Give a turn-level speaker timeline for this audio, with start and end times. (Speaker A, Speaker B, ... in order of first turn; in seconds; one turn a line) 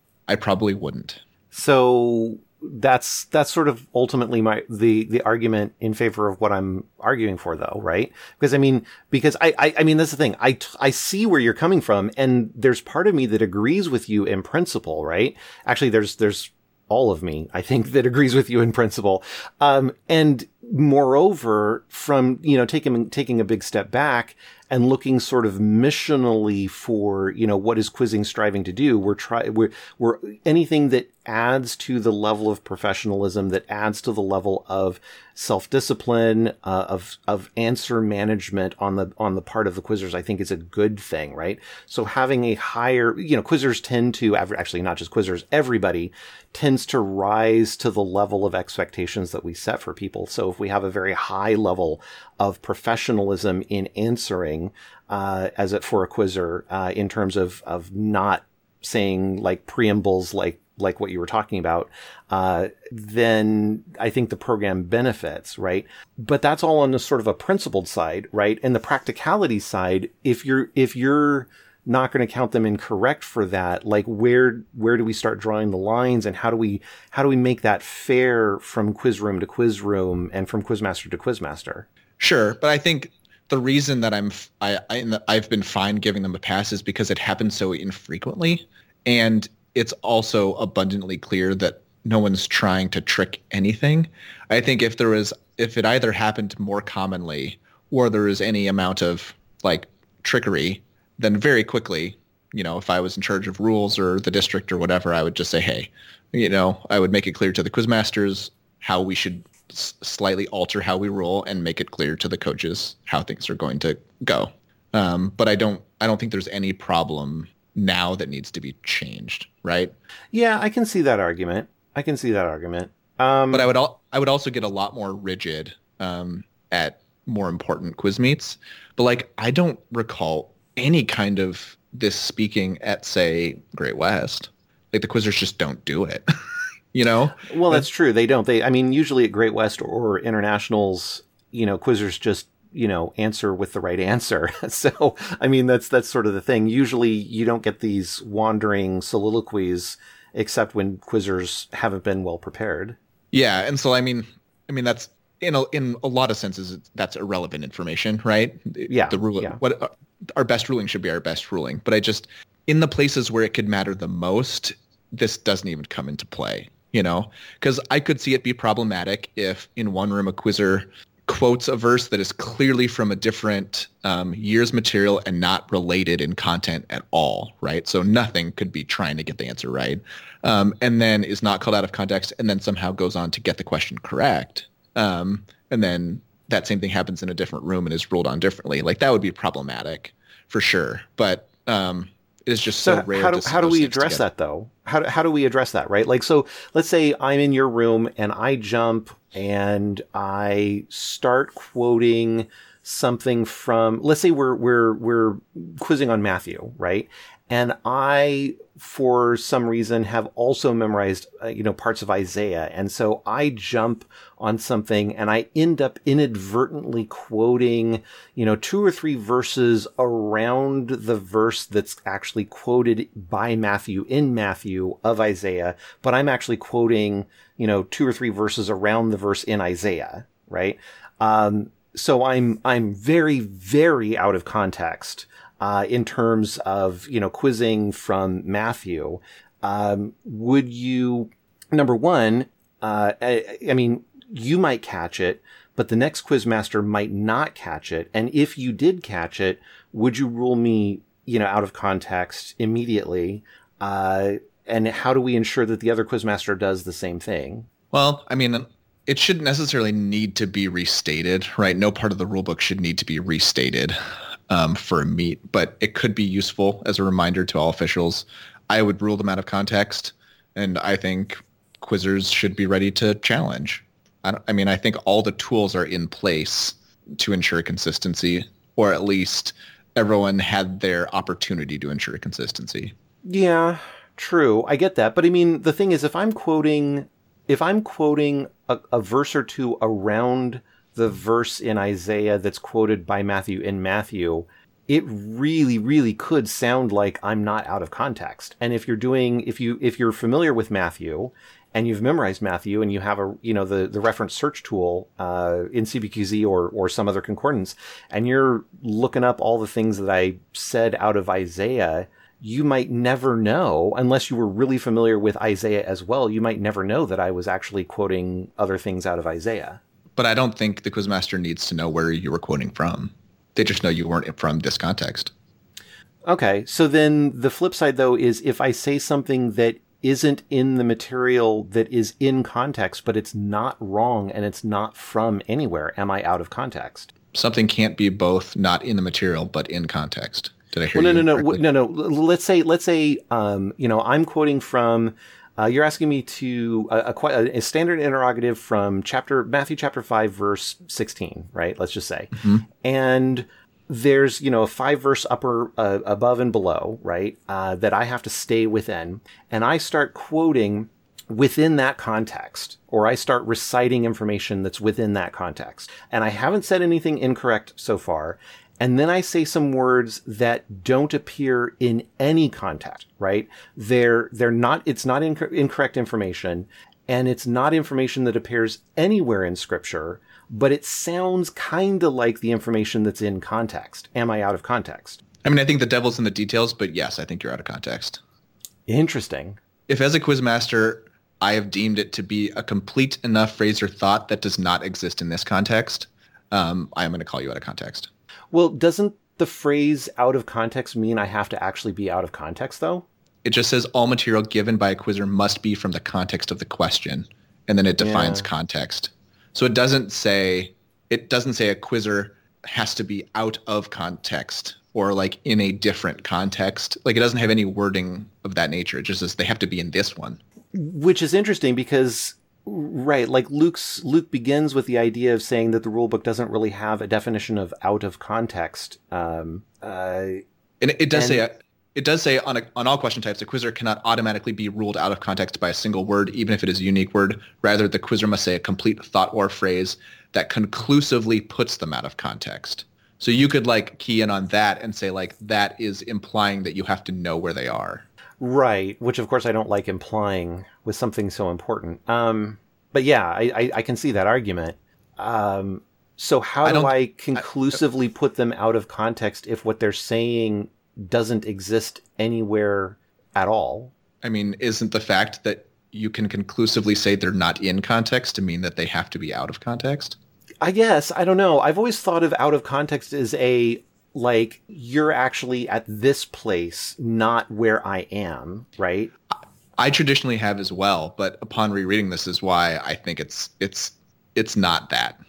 Speaker A: 0.3-1.2
Speaker B: 1.5-81.9
Speaker A: 82.2-119.9
Speaker B: 120.3-123.7
Speaker A: 123.5-136.2
Speaker A: 136.9-137.9
Speaker B: 137.4-153.0
Speaker A: 153.3-194.2
Speaker B: 158.9-159.6
Speaker B: 192.8-257.7
Speaker A: 257.9-263.9
Speaker A: 264.5-282.9
Speaker B: 283.2-319.8
Speaker A: 320.1-325.3
Speaker B: 326.2-337.1
Speaker A: 337.3-341.6
Speaker B: 340.9-385.2
Speaker A: 352.4-352.6
Speaker A: 385.4-388.2
Speaker B: 388.9-389.6
Speaker A: 389.9-398.1
Speaker B: 398.5-403.1
Speaker A: 403.4-420.4
Speaker B: 408.0-408.5
Speaker B: 420.7-430.4
Speaker A: 430.8-448.1
Speaker B: 431.1-431.4
Speaker B: 448.4-463.9
Speaker A: 456.6-457.4
Speaker A: 464.2-470.2
Speaker B: 470.6-479.1
Speaker A: 479.8-485.2